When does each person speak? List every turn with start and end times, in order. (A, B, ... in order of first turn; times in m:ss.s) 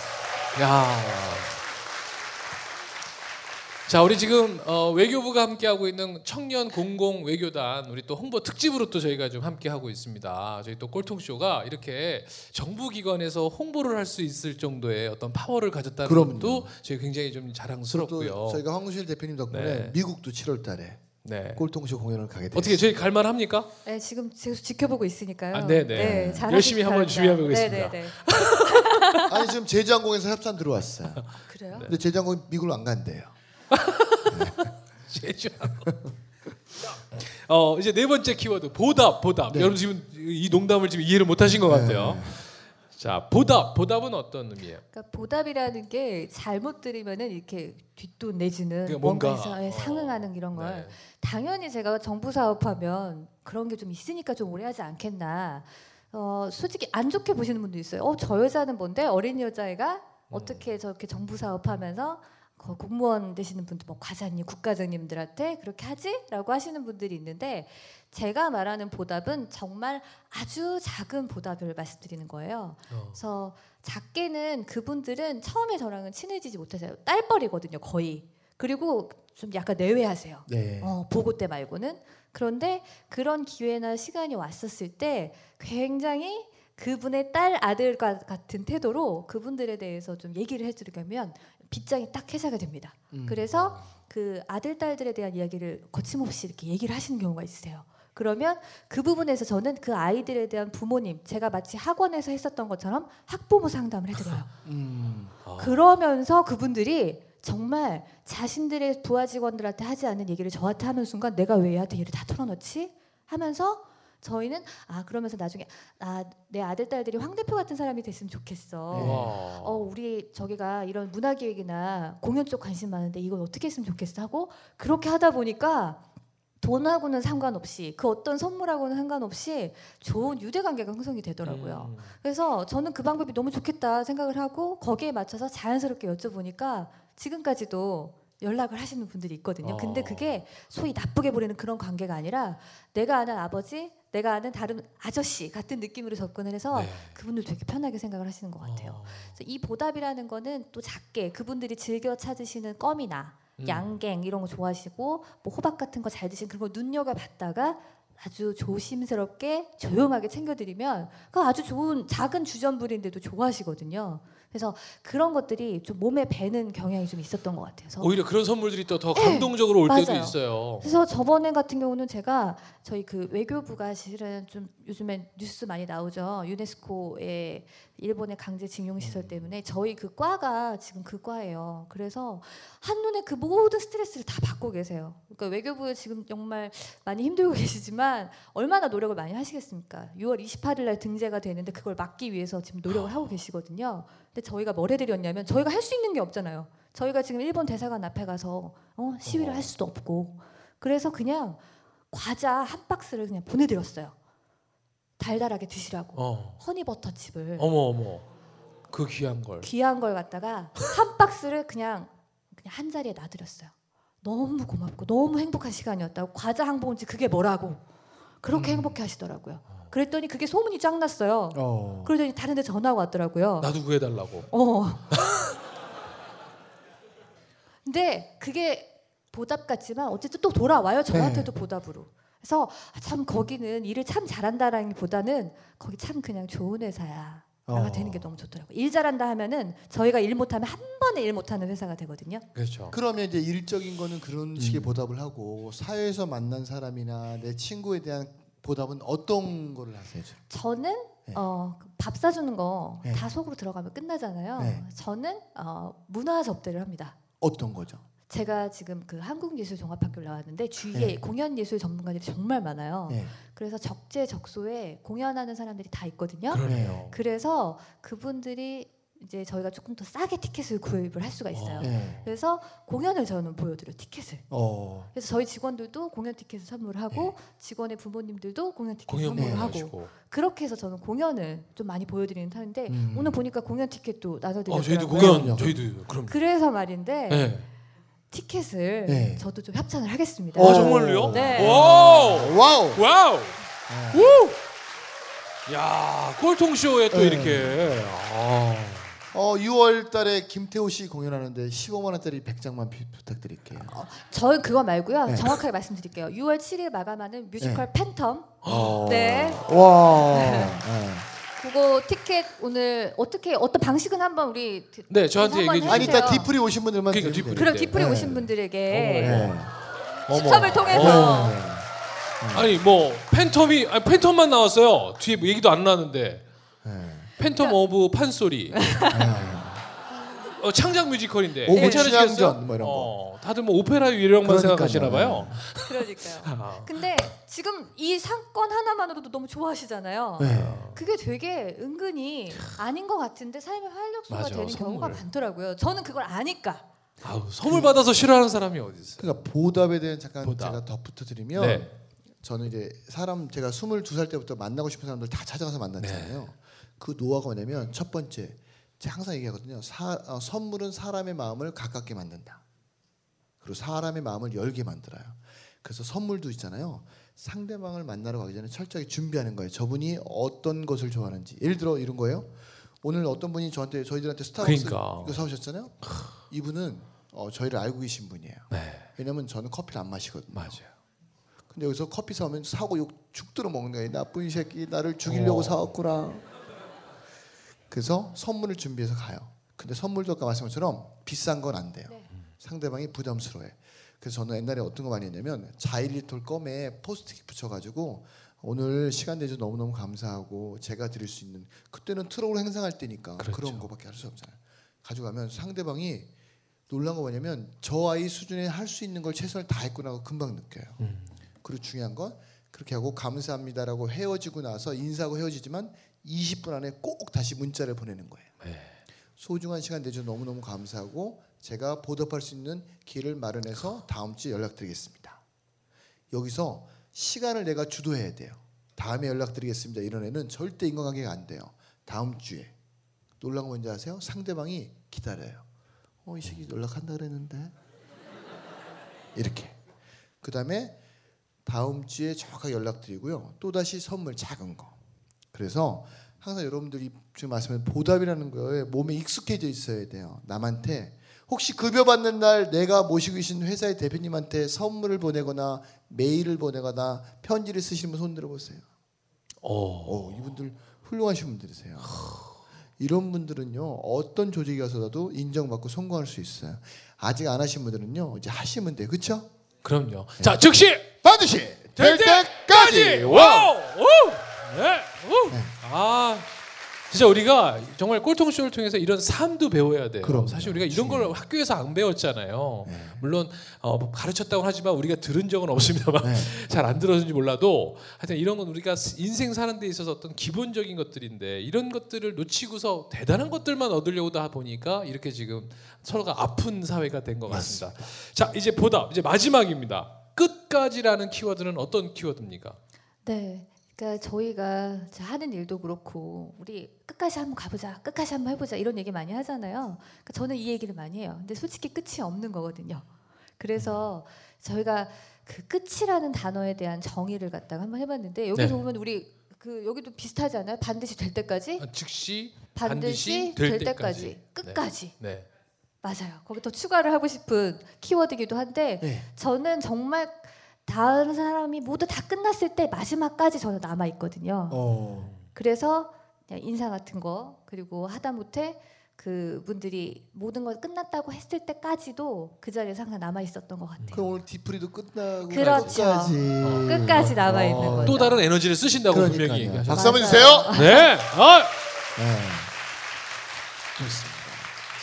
0:00.6-0:01.5 A
0:03.9-0:18.7 A
0:16.0-0:16.7 B
0:17.9-0:22.9 B
0:19.5-0:20.0 A
0:21.2-0:21.7 A
0:22.5-0:23.7 A
0:23.8-0:29.3 C
0:25.5-0:29.0 A
0:25.9-0:26.5 B
0:29.3-0:33.3 B
0:31.2-0:31.9 A
0:31.5-0:31.9 C
0:33.7-0:36.1 A
0:34.3-0:34.7 B
0:37.1-0:44.8 A
0:39.5-0:39.8 B
0:41.7-0:42.4 B
0:44.9-1:44.5 C
0:48.8-0:51.0 A
1:00.3-1:00.7 A
1:12.9-1:13.2 A
1:20.5-1:21.0 B
1:33.1-1:33.5 B
1:33.6-1:33.8 A
1:44.6-1:45.4 B
1:45.4-1:45.9 A
1:45.6-2:06.0 C
1:58.9-1:59.3 B
1:58.9-1:59.9 A
2:06.6-2:48.1 C
2:11.4-2:12.1 A
2:19.6-2:20.4 A
2:26.7-2:27.2 A
2:28.6-2:29.4 A
2:33.6-2:34.0 A
2:48.0-2:51.0 A
2:49.1-3:24.2 C
3:12.9-3:13.4 A
3:19.2-3:19.7 A
3:25.2-3:27.7 C
3:26.2-3:26.6 A
3:27.6-3:28.3 A
3:28.9-3:29.7 A
3:29.6-3:37.8 C
3:38.4-3:43.8 C
3:38.5-3:39.0 B
3:41.5-3:42.1 B
3:43.6-3:44.6 A
3:44.5-3:45.2 C
3:45.1-3:45.4 A
3:47.8-4:02.5 C
3:51.1-3:51.5 B
3:57.7-3:58.3 B
4:02.6-4:03.0 A
4:02.9-4:10.4 B
4:04.6-4:05.0 A
4:10.5-4:17.2 C
4:14.6-4:14.8 B
4:17.4-4:18.0 B
4:18.3-4:34.5 C
4:20.9-4:21.2 B
4:23.1-4:23.4 B
4:26.5-4:27.2 A
4:26.6-4:27.1 B
4:31.5-4:32.3 A
4:31.8-4:32.2 B
4:34.5-4:35.1 B
4:35.1-4:45.8 C
4:39.1-4:40.1 A
4:39.4-4:39.7 B
4:42.9-4:43.5 B
4:44.7-4:46.4 A
4:45.2-4:45.8 B
4:46.3-4:47.6 C
4:47.3-4:47.7 A
4:48.3-4:51.8 C
4:49.1-4:49.5 B
4:50.6-4:54.6 A
4:50.6-4:53.0 B
4:53.9-4:54.5 B
4:55.7-4:59.1 A
4:57.1-4:58.0 B
4:59.3-5:03.9 B
5:03.8-5:10.8 C
5:05.3-5:05.6 B
5:07.6-5:07.9 B
5:08.6-5:09.1 A
5:08.6-5:11.3 B
5:11.6-5:16.5 C
5:15.1-5:16.4 A
5:15.9-5:18.5 B
5:17.1-5:18.0 A
5:17.5-5:19.5 C
5:18.9-5:19.6 A
5:19.2-5:19.7 B
5:20.3-5:21.5 A
5:20.3-5:21.6 C
5:20.9-5:21.9 B
5:22.4-5:22.8 B
5:22.5-5:26.4 A
5:26.8-5:27.3 B
5:27.4-5:29.0 A
5:27.5-5:27.8 C
5:28.8-5:29.4 C
5:29.1-5:29.8 B
5:30.5-5:36.9 A
5:31.6-5:33.1 B
5:31.7-5:32.1 C
5:34.4-5:35.6 B
5:35.8-5:46.8 C
5:40.4-5:40.8 B
5:40.5-5:41.0 A
5:44.3-5:45.2 A
5:47.2-5:49.3 A
5:47.6-5:48.0 B
5:49.2-6:02.6 B
5:50.4-5:50.8 A
5:51.5-5:51.9 A
5:56.0-5:56.5 A
6:03.6-6:20.8 B
6:14.6-6:15.4 A
6:16.0-6:16.3 A
6:18.7-6:19.1 A
6:20.5-6:20.9 A
6:21.7-6:26.4 B
6:25.2-6:25.9 A
6:27.9-6:46.3 B
6:32.1-6:32.3 C
6:43.4-6:43.9 A
6:46.9-6:51.0 B
6:51.0-6:51.3 A
6:51.6-6:58.5 B
6:58.6-6:59.0 A
6:59.4-7:05.4 B
7:06.3-7:12.7 B
7:13.4-7:15.6 B
7:16.2-7:17.7 B
7:19.4-7:19.8 B
7:20.4-7:21.0 B
7:21.6-7:25.0 B
7:25.5-7:38.8 B
7:39.6-7:40.4 A
7:40.0-7:42.2 B
7:42.1-7:42.5 A
7:43.0-7:49.5 B
7:49.8-7:51.1 A
7:51.2-7:53.8 B
7:52.0-7:56.5 A
7:55.5-7:55.7 B
7:57.1-8:22.8 A
8:00.2-8:01.4 B
8:02.8-8:03.2 B
8:06.2-8:06.6 B
8:17.5-8:18.0 B
8:23.2-8:33.1 C
8:33.6-8:41.9 C
8:33.8-8:34.1 A
8:38.6-8:38.8 A
8:41.8-8:45.5 A
8:42.8-8:45.2 C
8:46.0-9:04.4 C
8:49.0-8:49.3 B
8:54.7-8:55.3 B
8:55.2-8:55.5 A
9:04.0-9:04.3 A
9:04.1-9:08.3 B
9:05.5-9:08.5 C
9:05.5-9:06.0 A
9:06.6-9:11.7 A
9:09.1-9:10.8 B
9:09.9-9:11.1 C
9:12.2-9:12.7 B
9:14.0-9:14.7 B